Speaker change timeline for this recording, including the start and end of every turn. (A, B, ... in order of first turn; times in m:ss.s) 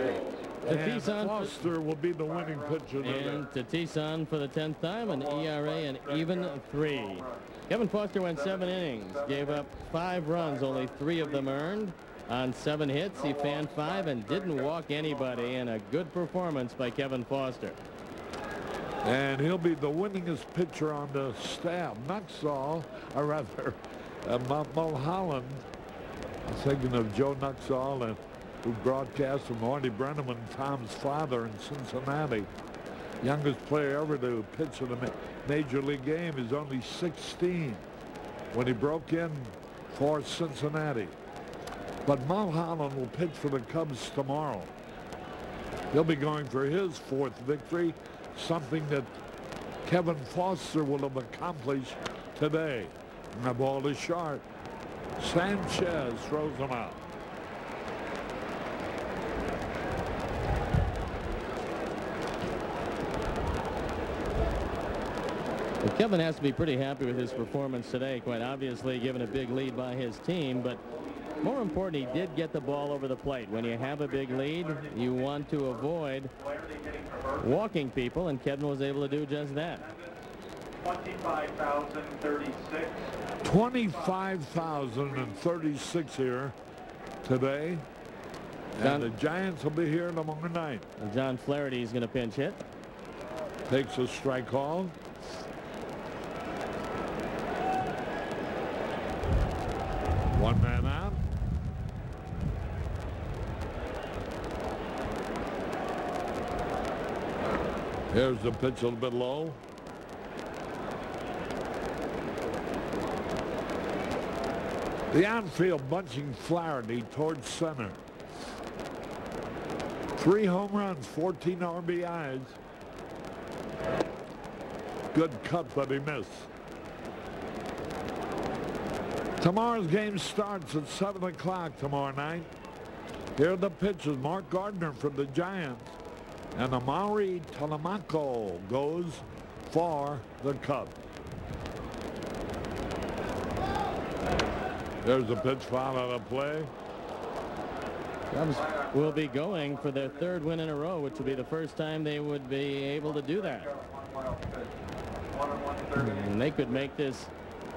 0:00.6-0:03.4 A
0:00.6-0:01.6 B
0:03.0-0:17.8 B
0:19.0-0:25.6 A
0:26.4-0:32.5 A
0:33.2-0:37.8 A
0:38.5-0:41.1 A
0:42.0-0:44.7 A
0:45.9-0:49.1 A
0:49.8-0:54.4 A
0:55.2-0:57.0 A
1:05.8-1:10.8 B
1:11.4-1:16.3 B
1:16.6-1:17.2 C
1:17.4-1:19.9 B
1:20.8-1:23.0 C
1:23.4-1:26.5 A
1:27.2-1:27.8 A
1:28.8-1:30.9 A
1:28.8-1:29.1 B
1:31.0-1:32.6 B
1:33.7-1:34.9 A
1:40.3-1:41.2 A
1:48.1-1:49.6 A
1:55.1-1:58.0 A
2:00.2-2:02.6 A
2:05.1-2:06.5 A
2:09.4-2:12.5 A
2:13.4-2:16.0 A
2:16.5-2:21.0 A
2:25.0-2:26.7 A
2:28.3-2:33.8 B
2:36.0-2:37.3 B